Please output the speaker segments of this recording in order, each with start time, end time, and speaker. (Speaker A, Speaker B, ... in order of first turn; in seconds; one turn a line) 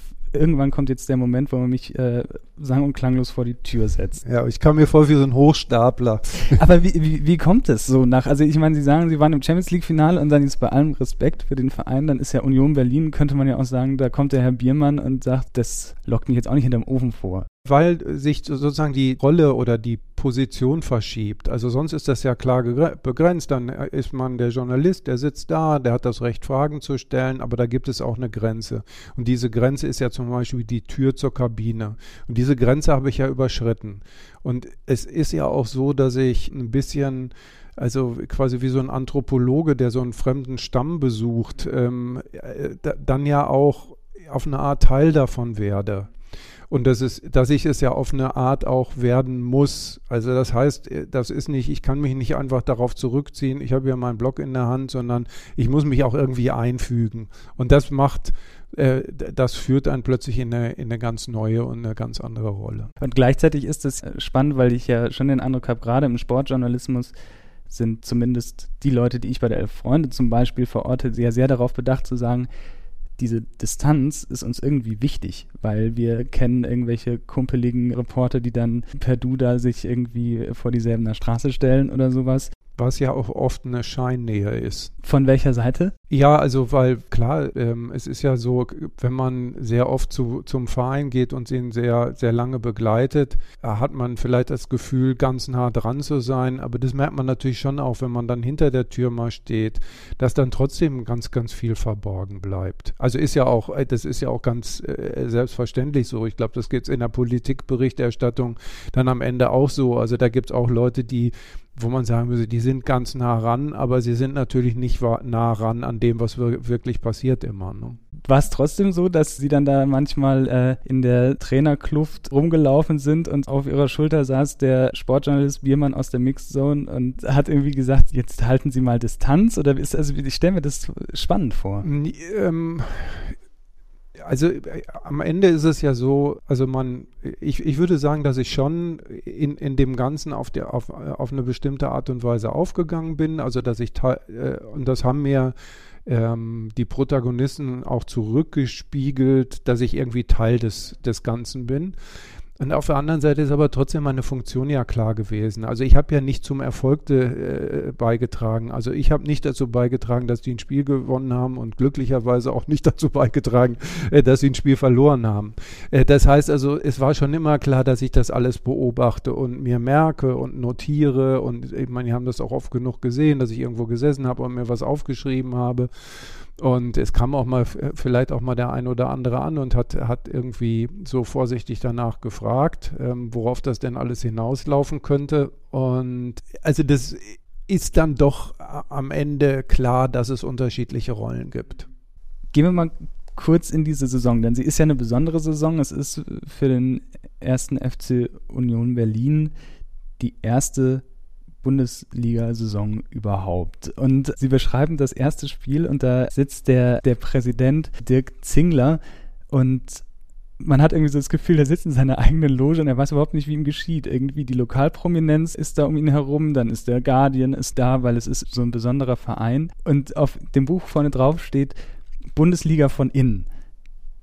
Speaker A: 0.3-4.2
Speaker B: 4.2-6.6
Speaker A: 6.5-17.5
Speaker B: 17.6-46.1
Speaker B: 46.7-62.9
Speaker A: 63.0-67.1
Speaker A: 67.7-72.5
Speaker A: 73.2-82.5
Speaker B: 82.8-84.9
Speaker A: 85.0-85.9
Speaker B: 86.1-118.0
Speaker A: 118.2-131.9
Speaker B: 131.8-133.4
Speaker B: 134.2-145.5
Speaker B: 146.1-151.9
Speaker B: 152.6-191.9
Speaker A: 192.5-199.5
Speaker A: 200.2-201.0
Speaker A: 201.6-209.0
Speaker A: 209.5-210.0
Speaker A: 210.6-221.8
Speaker A: 222.3-223.5